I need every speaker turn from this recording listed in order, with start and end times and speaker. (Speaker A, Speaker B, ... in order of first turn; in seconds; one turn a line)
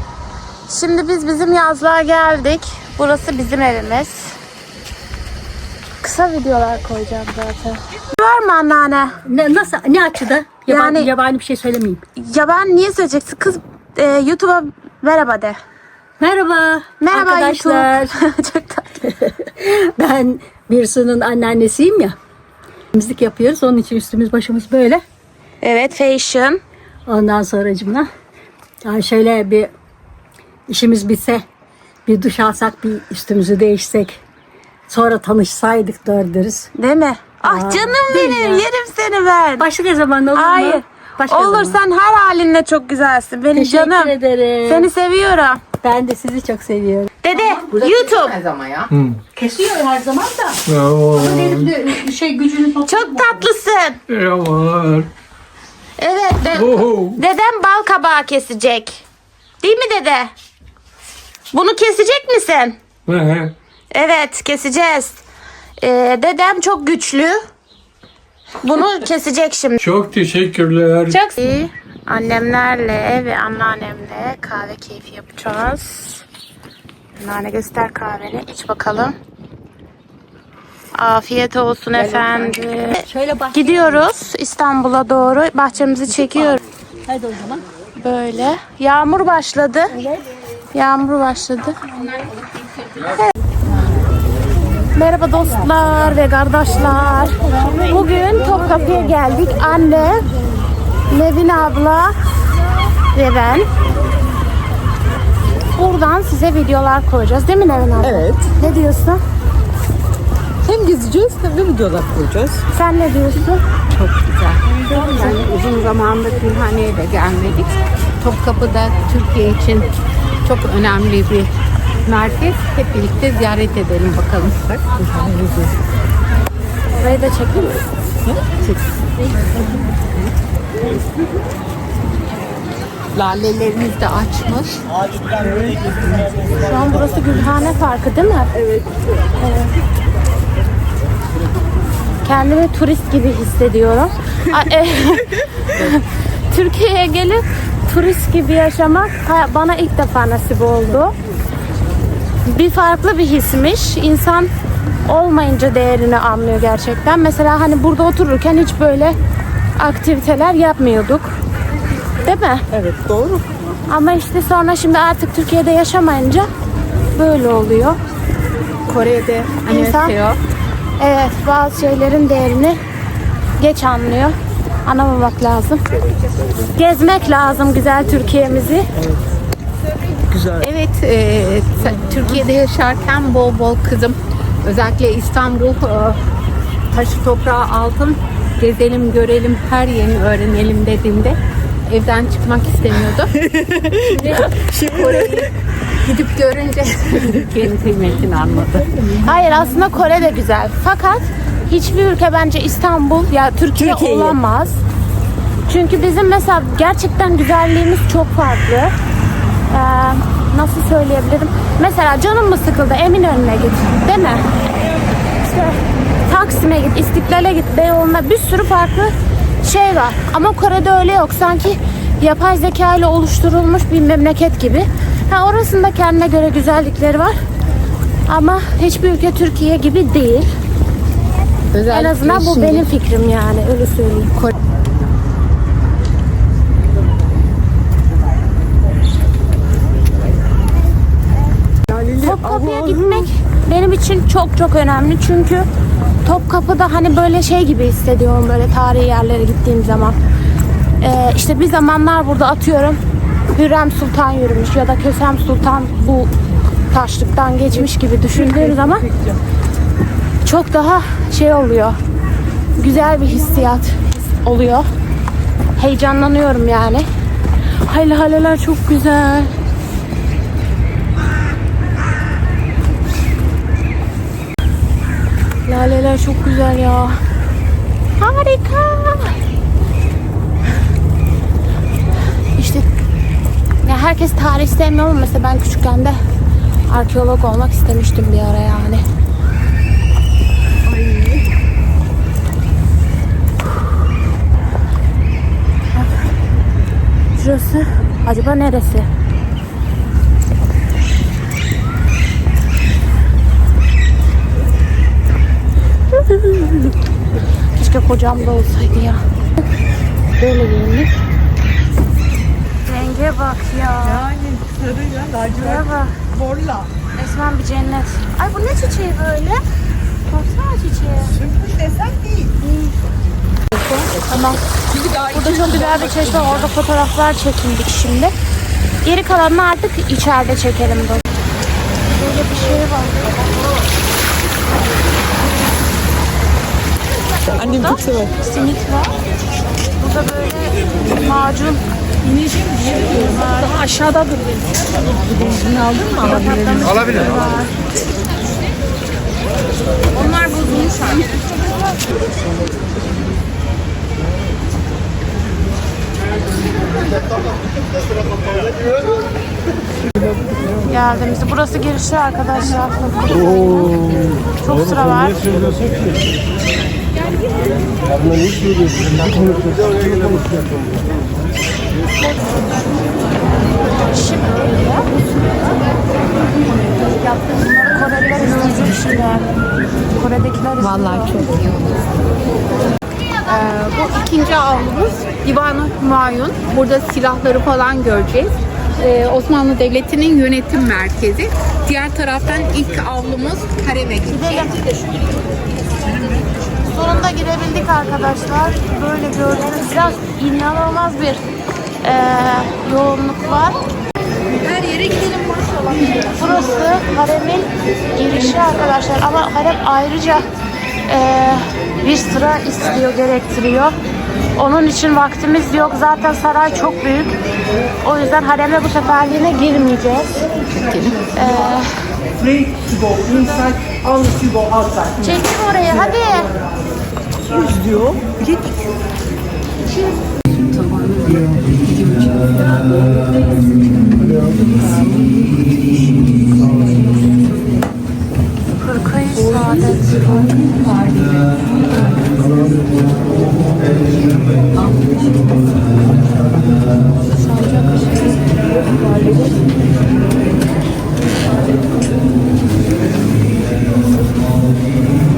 Speaker A: 0.7-4.3
Speaker A: 6.0-9.2
Speaker B: 9.2-12.0
Speaker A: 10.7-11.1
Speaker A: 12.2-15.6
Speaker B: 16.2-18.1
Speaker A: 17.0-19.1
Speaker B: 19.2-22.2
Speaker B: 22.9-25.0
Speaker A: 25.6-26.6
Speaker B: 27.1-28.1
Speaker B: 28.9-29.7
Speaker B: 30.7-31.4
Speaker B: 32.1-34.2
Speaker B: 34.9-36.7
Speaker A: 36.8-39.7
Speaker B: 37.5-38.7
Speaker B: 39.6-41.8
Speaker A: 40.3-44.1
Speaker B: 43.5-44.9
Speaker A: 44.6-45.6
Speaker B: 45.8-47.1
Speaker A: 47.2-48.4
Speaker C: 47.3-48.9
Speaker D: 48.9-49.2
Speaker B: 49.4-53.5
Speaker D: 50.7-51.7
Speaker A: 52.9-54.0
Speaker D: 54.1-55.1
Speaker A: 56.0-59.0
Speaker D: 56.5-57.2
Speaker A: 59.6-60.3
Speaker A: 61.5-62.8
Speaker D: 63.1-63.5
Speaker A: 63.9-65.2
Speaker A: 65.8-67.4
Speaker A: 68.6-69.8
Speaker D: 69.8-71.2
Speaker A: 71.1-76.2
Speaker A: 77.2-79.2
Speaker A: 81.0-86.6
Speaker C: 82.0-82.5
Speaker B: 82.8-84.0
Speaker B: 87.1-87.6
Speaker A: 88.0-90.0
Speaker A: 90.7-92.0
Speaker A: 93.0-93.3
Speaker A: 95.0-100.2
Speaker A: 101.1-102.1
Speaker A: 103.1-103.7
Speaker A: 105.8-109.2
Speaker E: 108.0-108.4
Speaker E: 110.7-112.6
Speaker A: 112.7-113.6
Speaker C: 113.9-119.9
Speaker C: 120.4-121.5
Speaker C: 122.0-124.9
Speaker E: 125.1-125.7
Speaker A: 126.9-127.8
Speaker C: 133.1-134.8
Speaker A: 136.6-138.5
Speaker A: 139.4-139.7
Speaker A: 142.2-151.1
Speaker A: 152.5-154.5
Speaker A: 155.1-159.2
Speaker A: 159.8-161.3
Speaker A: 162.2-162.7
Speaker E: 162.7-163.4
Speaker A: 163.9-166.5
Speaker A: 167.2-168.0
Speaker C: 168.9-170.4
Speaker A: 169.7-170.1
Speaker A: 171.0-172.8
Speaker A: 173.6-174.3
Speaker A: 174.9-175.8
Speaker A: 176.8-178.9
Speaker C: 180.6-186.2
Speaker C: 186.9-193.3
Speaker E: 193.5-194.1
Speaker A: 194.1-194.5
Speaker C: 194.1-195.5
Speaker C: 196.0-199.0
Speaker A: 199.1-204.8
Speaker E: 203.8-204.3
Speaker A: 205.7-208.9
Speaker A: 209.7-214.4
Speaker A: 215.4-227.3
Speaker A: 228.3-230.5
Speaker C: 231.7-232.9
Speaker A: 231.9-234.3
Speaker E: 241.9-243.2
Speaker A: 242.2-245.7
Speaker A: 246.2-250.2
Speaker A: 251.0-253.0
Speaker A: 253.5-256.3
Speaker A: 256.9-259.1
Speaker A: 260.4-262.0
Speaker A: 262.8-264.9
Speaker A: 265.8-267.1
Speaker A: 267.8-269.5
Speaker A: 275.7-277.2
Speaker A: 278.2-279.4
Speaker A: 282.6-282.9
Speaker A: 283.8-286.2
Speaker A: 286.9-289.0
Speaker E: 291.0-291.4
Speaker A: 297.4-299.1
Speaker A: 306.1-306.9
Speaker A: 307.8-309.2
Speaker A: 310.4-311.1
Speaker A: 312.9-314.3
Speaker E: 314.0-315.8
Speaker A: 315.5-316.2
Speaker E: 316.3-316.9
Speaker A: 317.1-319.6
Speaker A: 320.3-321.4
Speaker E: 321.4-322.5
Speaker A: 323.9-324.7
Speaker E: 324.9-326.5
Speaker A: 325.2-328.3
Speaker A: 329.0-331.2
Speaker A: 332.1-333.4
Speaker E: 337.5-338.3
Speaker A: 337.5-339.1
Speaker A: 340.0-341.8
Speaker A: 343.0-344.4
Speaker E: 345.3-347.0
Speaker A: 345.9-347.7
Speaker A: 350.1-351.4
Speaker A: 360.9-365.4
Speaker A: 374.1-375.1
Speaker A: 377.7-379.5
Speaker A: 380.2-381.3
Speaker C: 380.8-382.0
Speaker C: 383.5-394.8
Speaker A: 394.3-394.9
Speaker A: 396.9-401.4
Speaker A: 402.0-403.8
Speaker E: 404.8-405.9
Speaker A: 406.3-410.4
Speaker A: 411.1-413.9
Speaker A: 414.6-417.4
Speaker A: 418.0-420.4
Speaker C: 420.7-421.3
Speaker A: 421.3-422.0
Speaker E: 422.6-425.1
Speaker A: 425.2-426.5
Speaker E: 427.5-428.7
Speaker C: 430.9-431.4
Speaker E: 434.2-435.3
Speaker A: 438.8-440.7
Speaker E: 440.6-442.4
Speaker E: 444.9-445.4
Speaker A: 447.4-448.4